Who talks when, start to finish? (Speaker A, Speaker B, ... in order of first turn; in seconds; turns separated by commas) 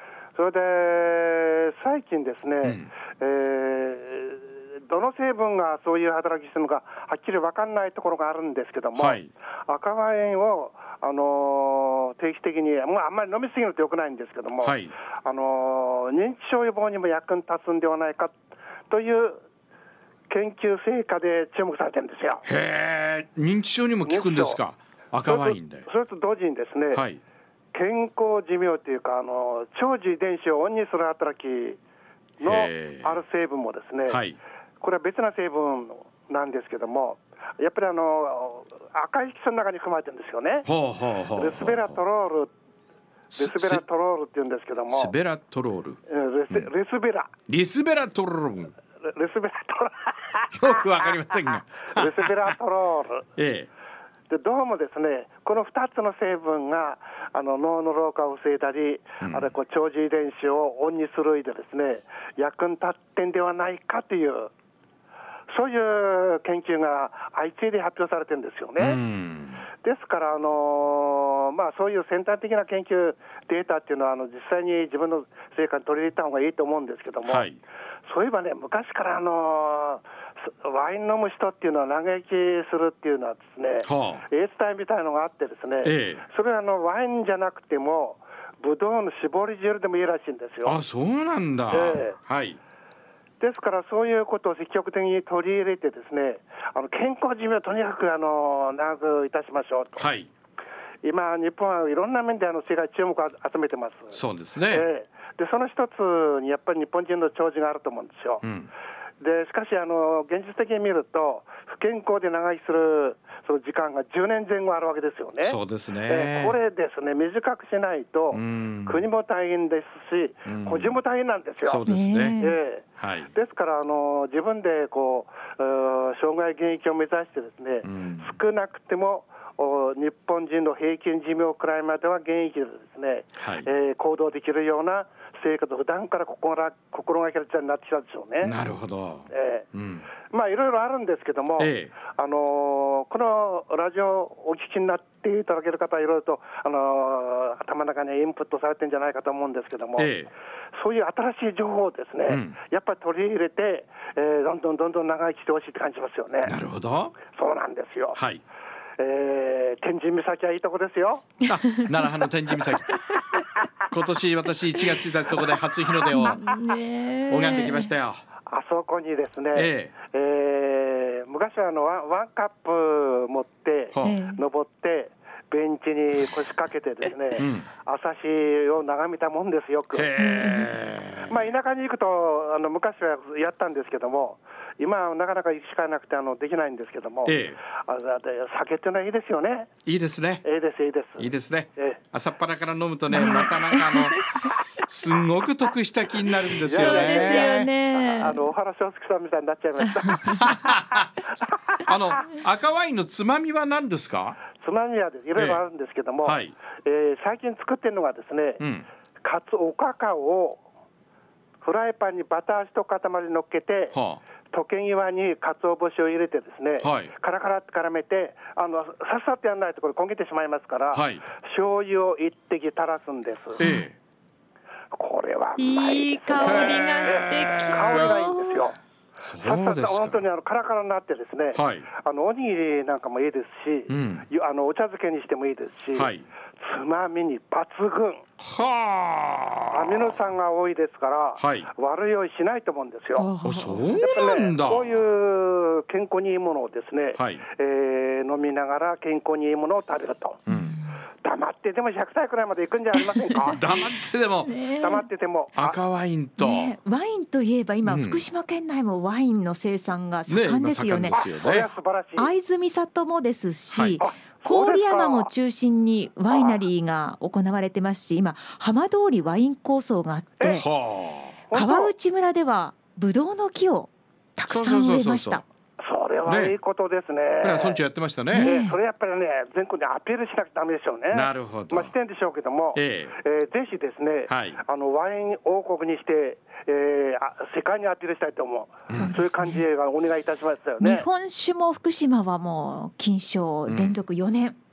Speaker A: 0.3-18.4, Speaker B: 2.6-2.9, Speaker B: 8.9-9.3, Speaker B: 14.6-14.9, Speaker A: 18.9-19.4, Speaker A: 20.3-22.4, Speaker B: 22.4-25.9, Speaker A: 24.0-24.6, Speaker A: 25.2-27.0, Speaker B: 26.9-27.2, Speaker A: 27.7-31.8, Speaker A: 32.4-34.2, Speaker B: 32.4-33.2, Speaker B: 34.1-34.4, Speaker A: 34.8-40.7, Speaker B: 40.6-42.0, Speaker A: 41.3-42.5, Speaker B: 43.3-43.8, Speaker A: 43.3-45.1, Speaker B: 44.9-46.0, Speaker A: 46.1-47.3, Speaker B: 47.5-48.7, Speaker A: 49.0-50.8, Speaker B: 50.5-52.3, Speaker A: 51.9-53.3, Speaker B: 53.4-53.7, Speaker A: 54.3-64.5, Speaker B: 59.2-59.5, Speaker A: 65.5-69.0, Speaker B: 68.8-69.7, Speaker A: 69.8-77.5, Speaker B: 77.2-77.6, Speaker A: 78.0-90.8, Speaker B: 83.8-84.2, Speaker B: 85.8-86.2, Speaker B: 90.6-92.6, Speaker A: 91.7-92.2, Speaker A: 93.4-100.1, Speaker B: 100.0-100.3, Speaker A: 101.0-108.4, Speaker B: 104.1-104.8, Speaker B: 108.4-108.7, Speaker A: 109.2-121.8, Speaker B: 115.4-116.6, Speaker B: 118.3-119.0, Speaker B: 120.5-121.0, Speaker B: 121.6-122.4, Speaker C: 121.8-122.6, Speaker A: 122.4-138.5, Speaker B: 123.0-123.3, Speaker B: 127.8-128.3, Speaker B: 133.4-133.7, Speaker B: 138.4-140.1, Speaker A: 139.3-139.7, Speaker A: 140.3-150.1, Speaker B: 141.6-141.9, Speaker B: 150.0-150.3, Speaker A: 150.7-156.5, Speaker B: 152.3-152.6, Speaker B: 156.4-157.2, Speaker A: 157.2-158.2, Speaker B: 158.2-158.4, Speaker A: 159.0-161.3, Speaker B: 161.4-163.0, Speaker B: 163.8-166.4, Speaker C: 166.1-167.9, Speaker B: 167.3-168.2, Speaker A: 168.4-180.1, Speaker B: 169.5-169.9, Speaker B: 173.9-174.2, Speaker C: 174.0-174.4, Speaker B: 177.4-177.7, Speaker B: 179.9-181.4, Speaker C: 180.2-180.7, Speaker A: 181.3-189.7, Speaker B: 187.2-187.6, Speaker B: 189.8-190.4, Speaker A: 190.4-192.0, Speaker B: 191.2-197.7, Speaker C: 193.1-194.6, Speaker C: 196.2-198.4, Speaker A: 196.7-200.8, Speaker B: 200.2-201.1, Speaker A: 201.4-201.8, Speaker B: 201.8-204.4, Speaker A: 204.6-208.6, Speaker B: 205.3-205.6, Speaker B: 206.2-206.5, Speaker B: 208.6-208.9, Speaker A: 209.2-210.6, Speaker A: 211.6-213.9, Speaker B: 213.9-214.2, Speaker A: 214.5-223.6, Speaker B: 216.8-217.1, Speaker B: 220.9-221.2, Speaker B: 223.6-223.9, Speaker C: 223.6-223.8, Speaker A: 224.9-228.8, Speaker C: 225.6-228.7, Speaker B: 226.4-228.0, Speaker B: 229.2-230.2, Speaker A: 229.4-238.2, Speaker B: 231.5-231.8, Speaker B: 233.9-234.2, Speaker B: 235.9-236.2, Speaker B: 238.4-240.2, Speaker A: 239.7-243.3, Speaker B: 241.4-241.7, Speaker C: 243.2-244.0, Speaker B: 243.4-245.0, Speaker A: 244.0-250.4, Speaker B: 247.1-247.4, Speaker B: 250.5-250.8, Speaker C: 250.5-250.9, Speaker A: 251.2-253.6, Speaker B: 253.5-254.5, Speaker C: 254.4-255.1, Speaker A: 254.8-255.8, Speaker B: 255.5-256.8, Speaker C: 256.4-261.2, Speaker B: 257.8-258.2, Speaker B: 260.3-261.7, Speaker A: 261.1-262.3, Speaker C: 262.2-270.6, Speaker B: 263.7-264.0, Speaker A: 264.0-265.3, Speaker A: 266.3-266.6, Speaker A: 270.4-270.6, Speaker B: 270.6-271.4, Speaker A: 271.5-271.9, Speaker C: 271.5-275.4, Speaker B: 274.5-275.4, Speaker A: 275.8-277.8, Speaker B: 276.3-276.6, Speaker B: 277.4-278.5, Speaker C: 278.3-278.8, Speaker A: 278.4-291.1, Speaker B: 281.1-281.9, Speaker B: 282.7-283.1, Speaker B: 284.3-284.6, Speaker C: 288.9-289.6, Speaker C: 290.8-294.6, Speaker B: 293.7-293.9